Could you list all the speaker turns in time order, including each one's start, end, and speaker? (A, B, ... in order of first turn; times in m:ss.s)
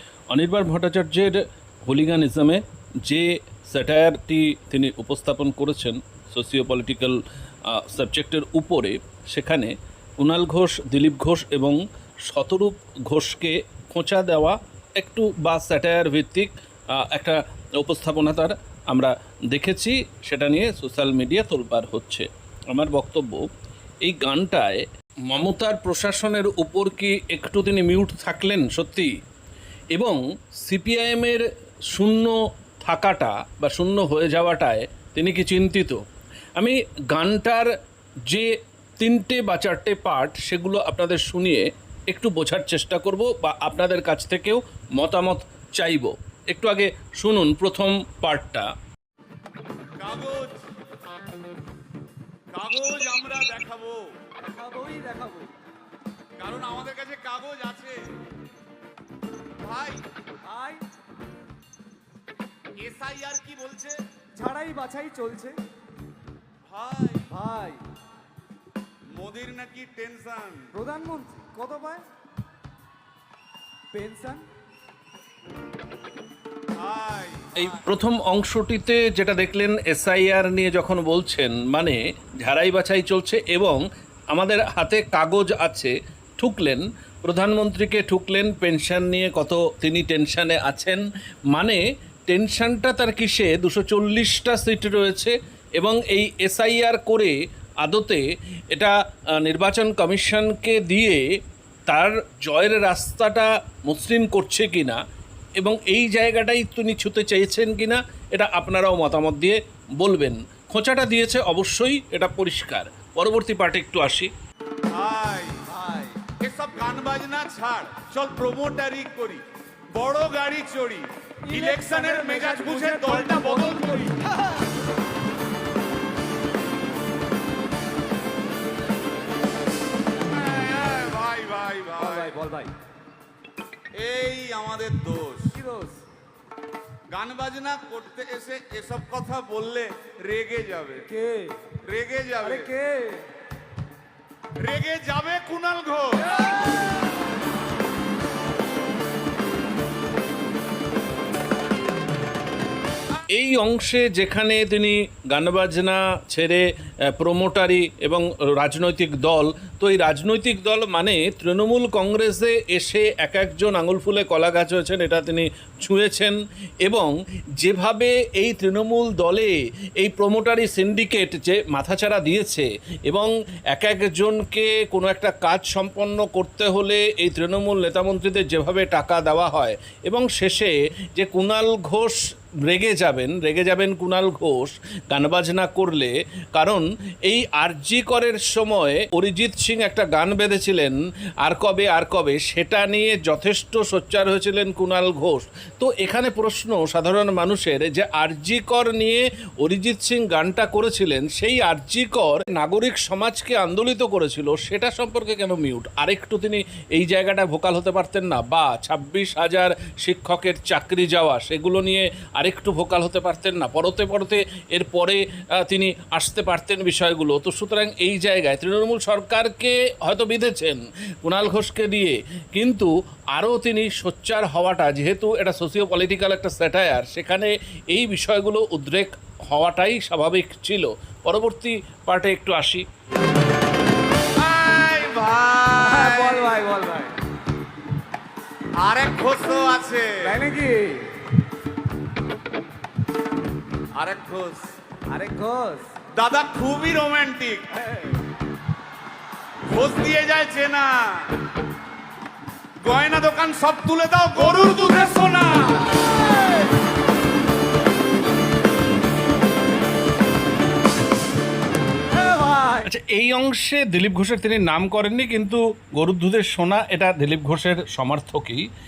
0:00.3-0:07.2 A
0:07.7-0:23.4 A
0:24.0-0:29.1 A
0:29.9-0:36.0 A
0:36.6-0:37.7 A
0:38.3-0:48.7 A
0:50.0-0:50.6 B
0:52.5-0:54.2 B
0:54.4-0:55.5 C
0:56.4-0:58.1 B
0:59.6-1:00.0 B
1:00.4-1:00.8 C
1:02.8-1:04.0 B
1:04.4-1:05.6 C
1:06.7-1:07.3 B
1:07.3-1:07.8 C
1:09.1-1:10.7 B
1:10.7-1:12.0 C
1:13.9-1:14.5 C
1:16.7-1:17.8 B
1:17.6-1:23.8 A
1:24.3-1:41.2 A
1:41.9-1:45.0 A
1:45.6-1:54.3 A
1:54.9-1:55.7 B
1:55.7-1:56.2 C
1:56.4-2:04.2 B
2:01.4-2:04.2 C
2:10.3-2:12.3 B
2:12.0-2:12.7 C
2:13.9-2:15.6 B
2:15.5-2:16.0 C
2:17.1-2:21.1 B
2:21.1-2:21.6 C
2:21.8-2:22.7 B
2:22.4-2:23.3 C
2:24.6-2:26.4 B
2:33.3-2:36.6 A
2:37.2-3:52.8 A
3:54.4-3:56.6 B
3:55.8-3:57.2 C
3:58.8-4:00.4 B
4:00.2-4:01.1 C
4:03.9-4:04.7 B
4:05.1-4:05.9 C
4:06.1-4:07.8 B
4:09.7-4:11.4 B
4:12.8-4:16.1 B
4:22.1-4:22.9 C
4:22.8-4:28.7 A